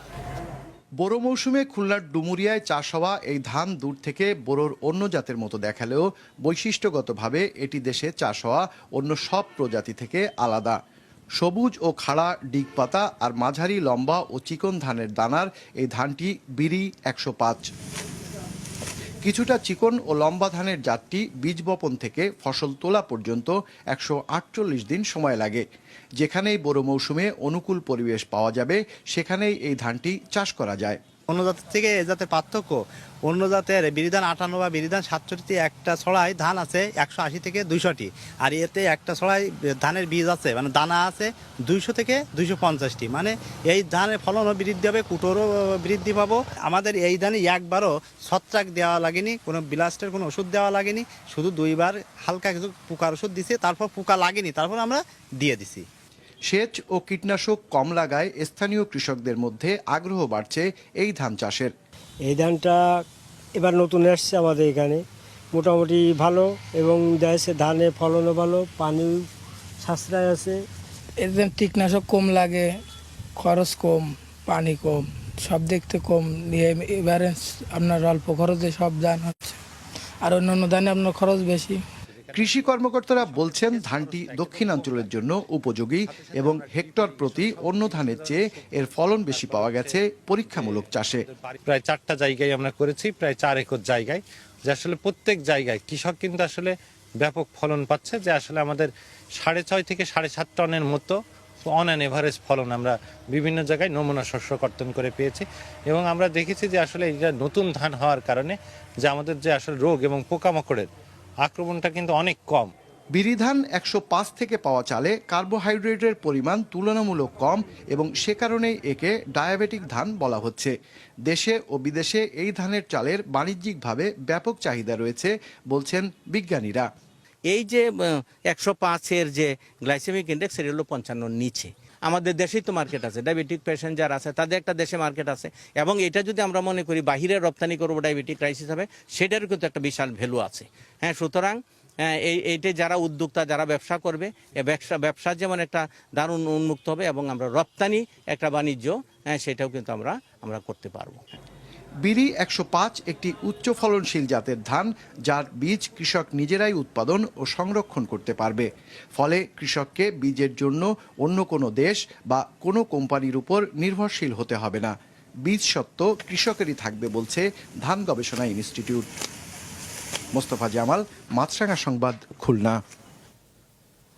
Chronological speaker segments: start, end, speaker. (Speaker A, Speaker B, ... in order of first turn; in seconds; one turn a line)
Speaker A: 1.0-10.8
Speaker A: 11.4-17.6
Speaker A: 19.2-25.6
Speaker A: 26.2-31.0
Speaker B: 31.3-55.8
Speaker A: 56.5-61.7
Speaker C: 62.3-62.8
Speaker C: 63.6-65.0
Speaker C: 65.5-69.2
Speaker C: 69.8-70.5
Speaker D: 71.2-72.7
Speaker D: 73.4-79.6
Speaker D: 80.2-81.8
Speaker E: 82.1-85.2
Speaker A: 82.3-91.2
Speaker E: 86.1-101.2
Speaker E: 101.7-110.9
Speaker E: 111.4-112.7
Speaker A: 113.1-120.7
Speaker A: 121.3-126.9
Speaker F: 127.5-151.2
Speaker A: 152.0-169.1
Speaker A: 170.3-172.8